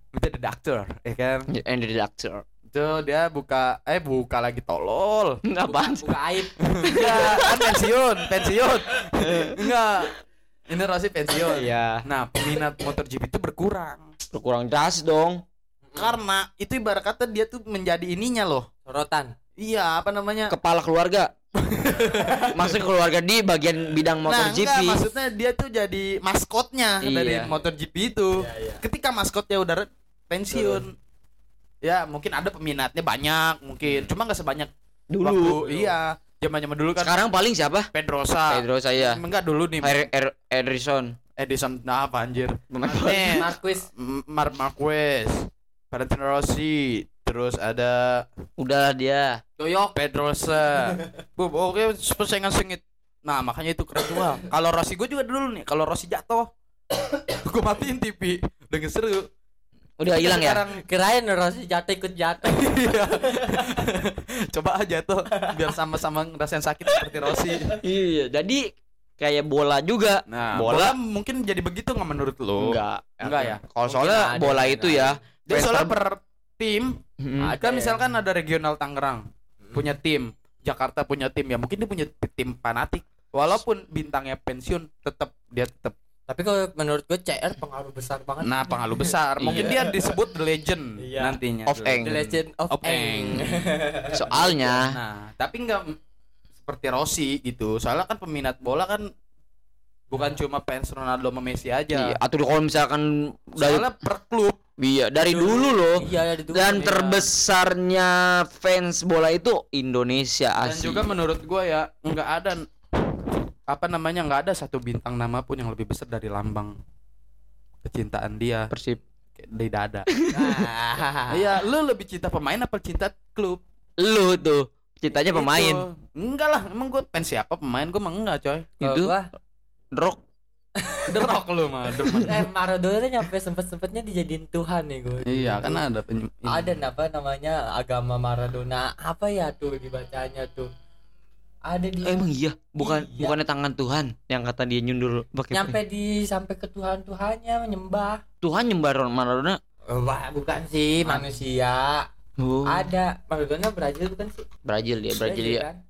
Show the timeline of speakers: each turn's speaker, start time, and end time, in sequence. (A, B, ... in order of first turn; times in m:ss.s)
0:00.1-0:01.5 A
0:01.5-0:02.4 B
0:02.7-0:05.4 A
0:05.4-0:06.1 B
0:05.7-0:07.2 C
0:06.6-0:10.2 A
0:06.9-0:07.9 B
0:09.1-0:09.7 B
0:10.7-0:14.1 A
0:11.3-0:12.0 B
0:14.3-0:15.4 B
0:15.9-0:16.2 C
0:15.9-0:18.7 A
0:18.9-0:19.3 C
0:19.6-0:20.5 A
0:20.5-0:21.3 B
0:21.6-0:22.8 A
0:22.0-0:22.4 C
0:22.5-0:25.0 B
0:24.2-0:30.9 A
0:27.0-0:27.5 B
0:28.4-0:28.8 C
0:30.5-0:30.8 C
0:31.8-0:37.2 A
0:35.1-0:35.6 B
0:35.6-0:35.9 C
0:37.0-0:37.9 B
0:37.9-0:40.0 A
0:38.5-0:39.2 B
0:39.8-0:41.2 B
0:41.4-0:48.3 A
0:42.7-0:43.5 B
0:43.3-0:43.8 C
0:48.6-0:49.4 B
0:49.6-0:56.5 A
0:57.1-0:59.3 A
1:00.0-1:00.6 B
1:00.2-1:03.6 C
1:00.2-1:00.8 A
1:02.4-1:07.8 A
1:07.7-1:08.6 B
1:09.2-1:10.9 B
1:10.3-1:13.6 A
1:12.6-1:15.9 B
1:13.8-1:15.2 C
1:15.5-1:17.0 A
1:17.2-1:17.6 B
1:17.4-1:18.2 C
1:17.6-1:26.0 A
1:26.3-1:30.2 C
1:28.4-1:32.1 A
1:29.4-1:29.7 B
1:31.0-1:31.4 C
1:31.7-1:32.3 B
1:32.0-1:34.7 C
1:32.7-1:33.6 A
1:34.1-1:34.9 B
1:34.8-1:35.9 A
1:36.6-1:39.1 A
1:40.1-1:40.4 C
1:40.1-1:42.2 A
1:41.9-1:43.9 B
1:43.6-1:44.6 A
1:44.8-1:51.1 B
1:45.3-1:46.9 C
1:46.7-1:47.3 A
1:50.6-1:52.7 A
1:53.7-1:56.7 A
1:57.8-1:58.7 A
1:58.7-1:59.0 B
1:59.3-2:00.1 A
2:00.1-2:00.7 B
2:00.3-2:01.5 C
2:01.3-2:03.6 A
2:04.0-2:05.8 B
2:05.3-2:08.7 A
2:08.8-2:09.1 B
2:08.8-2:09.2 C
2:09.9-2:10.2 B
2:10.8-2:11.3 C
2:11.0-2:12.4 A
2:12.2-2:15.8 C
2:15.2-2:16.7 A
2:16.5-2:20.7 C
2:21.6-2:22.2 C
2:22.0-2:25.8 B
2:22.8-2:23.4 C
2:25.5-2:28.2 C
2:28.4-2:29.6 B
2:29.9-2:32.1 C
2:32.4-2:32.9 B
2:32.6-2:34.5 C
2:34.6-2:35.6 B
2:35.1-2:35.8 C